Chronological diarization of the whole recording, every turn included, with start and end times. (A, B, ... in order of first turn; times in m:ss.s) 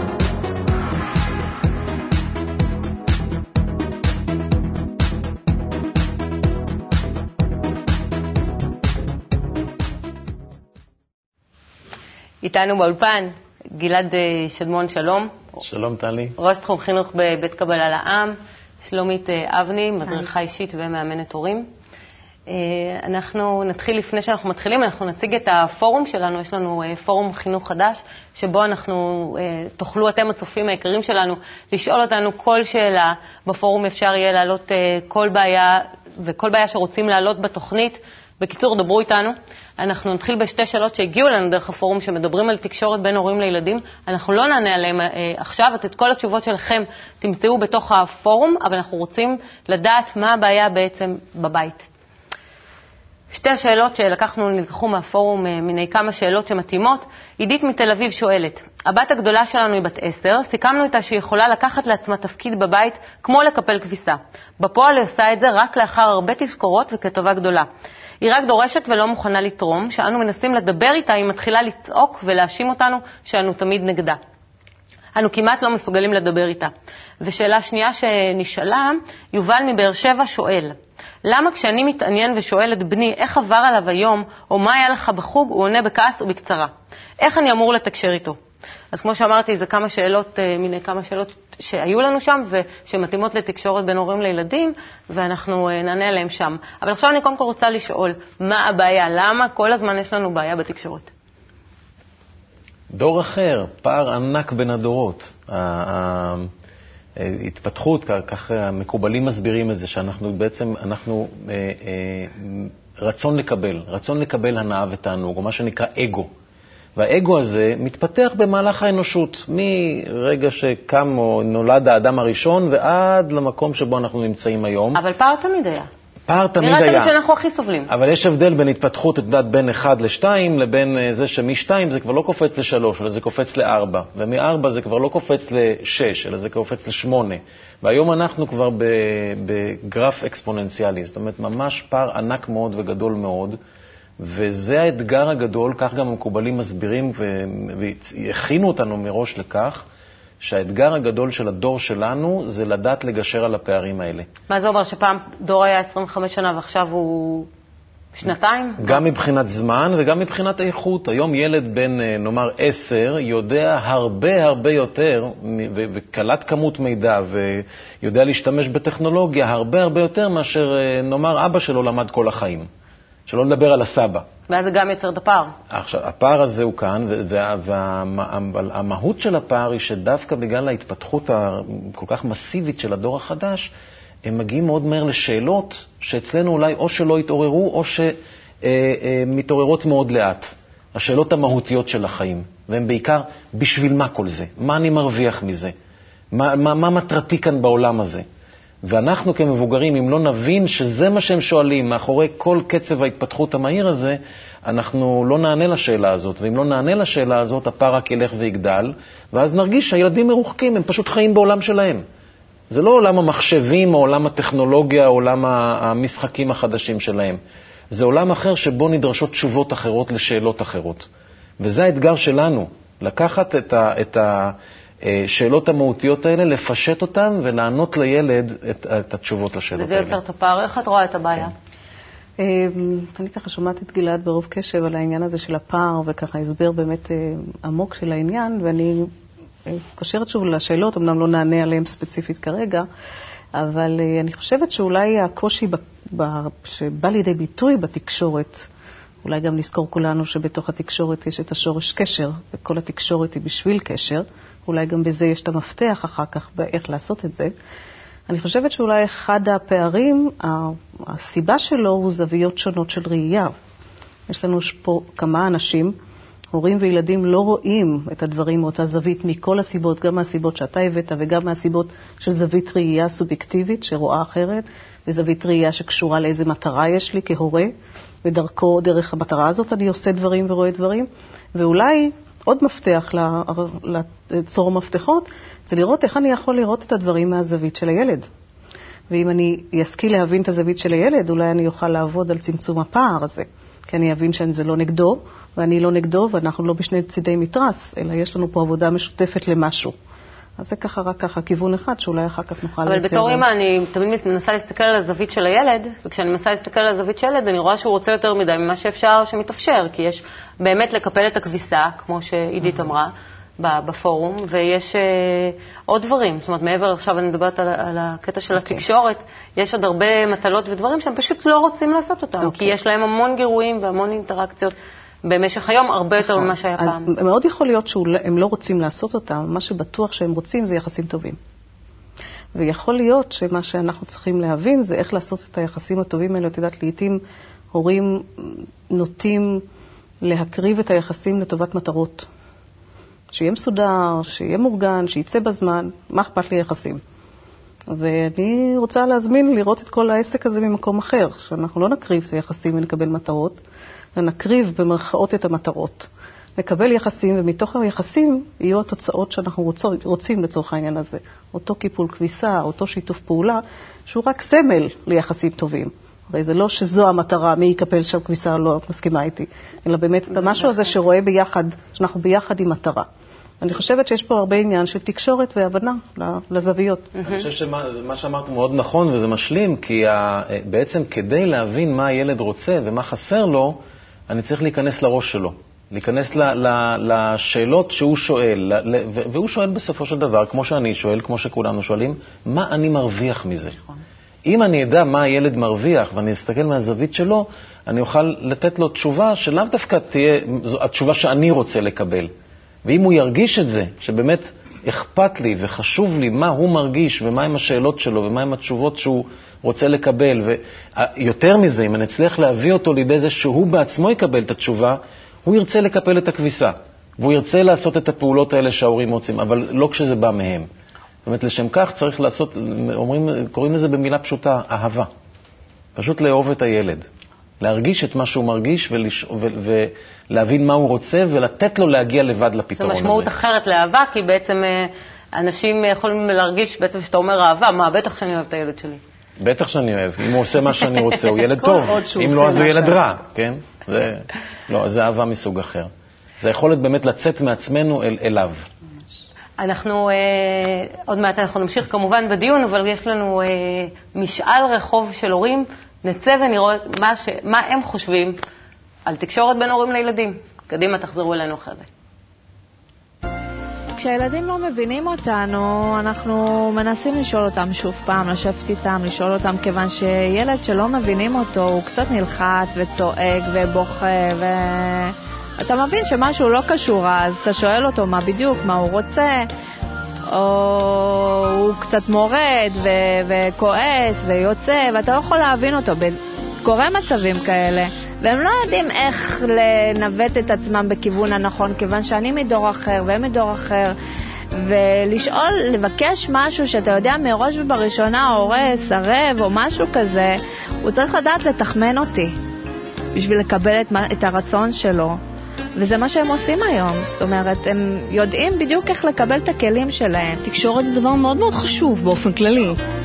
0:12.4-0:15.3 A
0:15.6-0:16.3 B
0:16.4-0:21.7 A
0:22.5-0:51.9 A
0:53.3-1:07.7 A
1:08.2-1:14.2 A
1:15.1-1:16.7 A
1:17.2-1:28.4 A
1:28.9-1:41.1 A
1:42.9-1:46.5 B
1:47.2-1:56.3 B
1:57.0-2:05.0 B
2:05.0-2:05.9 A
2:06.3-2:07.1 B
2:06.6-2:07.9 A
2:07.9-2:23.6 B
2:24.2-2:29.8 B
2:30.4-2:34.3 B
2:34.5-2:37.5 A
2:38.1-2:39.0 A
2:38.8-2:52.7 B
2:53.3-2:54.2 B
2:54.5-2:55.5 A
2:55.7-3:03.7 B
3:04.2-3:15.7 B
3:16.3-3:18.2 B
3:18.8-3:32.0 B
3:32.7-3:37.4 B
3:37.9-3:41.1 B
3:41.6-3:50.2 B
3:49.7-3:51.5 A
3:52.4-3:59.1 C
3:59.6-4:02.8 C
4:03.5-4:08.7 C
4:09.2-4:17.5 C
4:18.3-4:23.5 C
4:24.3-4:25.9 C
4:26.5-4:37.7 C
4:38.2-4:48.3 C
4:49.1-4:59.9 C
5:00.6-5:03.4 C
5:02.8-5:27.1 A
5:18.5-5:18.8 C
5:22.4-5:22.7 C
5:26.2-5:31.4 C
5:32.5-5:37.2 C
5:37.7-5:39.6 C
5:40.2-5:42.3 C
5:43.3-5:47.0 C
5:47.9-5:53.6 C
5:54.2-6:13.1 C
6:13.6-6:17.1 C
6:17.2-6:33.8 B
6:34.4-6:42.3 B
6:42.8-7:00.7 B
7:01.2-7:05.1 B
7:06.0-7:07.0 B
7:07.6-7:13.3 B
7:12.8-7:19.0 A
7:19.4-7:25.9 B
7:21.6-7:23.1 C
7:26.4-7:28.6 B
7:29.6-7:38.4 A
7:39.1-7:41.9 A
7:43.9-7:59.5 D
8:00.3-8:14.0 D
8:14.5-8:22.3 D
8:23.1-8:25.2 D
8:25.8-8:30.4 D
8:30.4-8:32.8 E